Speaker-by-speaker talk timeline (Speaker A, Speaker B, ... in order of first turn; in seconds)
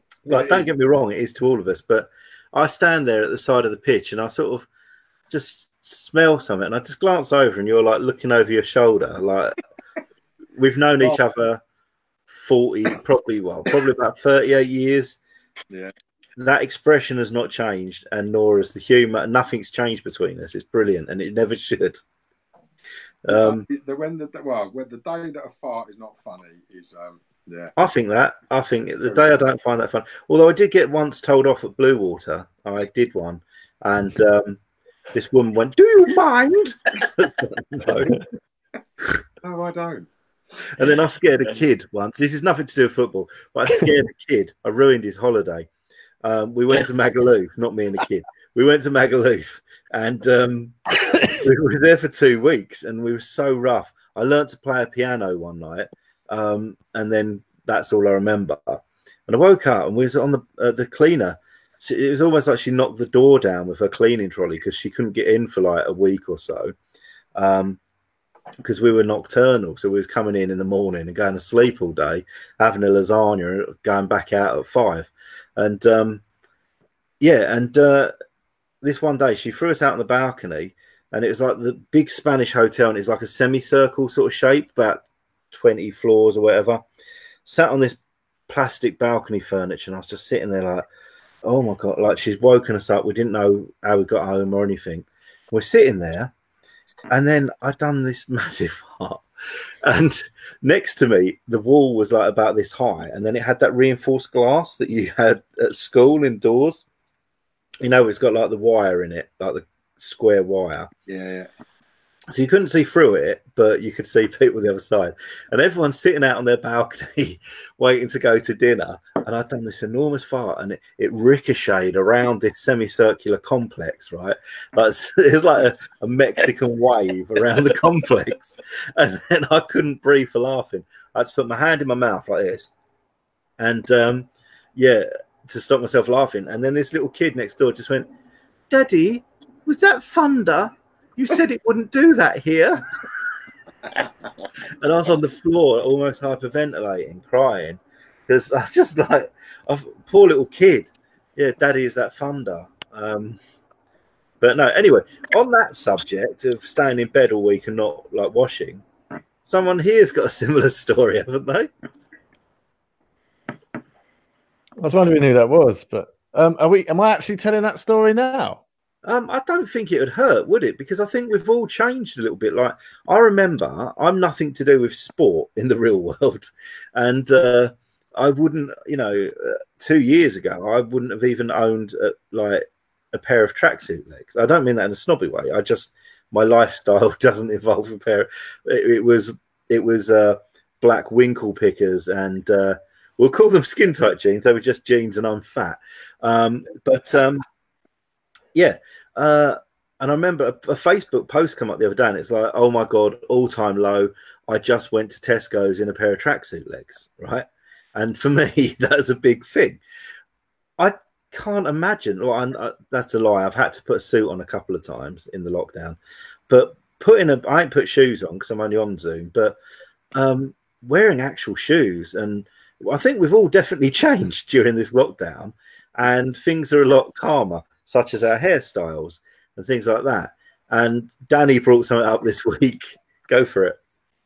Speaker A: 0.3-4.7, 5.3-9.6, 10.6-11.6, 12.3-15.2, 16.4-22.0, 23.2-23.6, 27.8-34.6, 35.1-38.2, 40.7-45.7, 46.2-66.7, 67.4-67.8, 68.6-76.2, 77.2-78.1, 78.8-86.8, 87.5-90.9, 91.4-96.3, 97.1-99.2, 99.8-106.8, 107.8-110.9, 112.3-132.7, 133.6-138.1, 138.7-143.0, 144.8-153.4, 154.4-158.8, 159.4-161.7, 169.1-197.4, 198.6-209.8, 210.8-216.0, 216.5-219.6, 220.1-233.8
Speaker B: 0.3-0.7, 23.3-27.8, 29.1-29.4, 39.4-40.1, 111.1-111.5
Speaker C: 164.8-168.6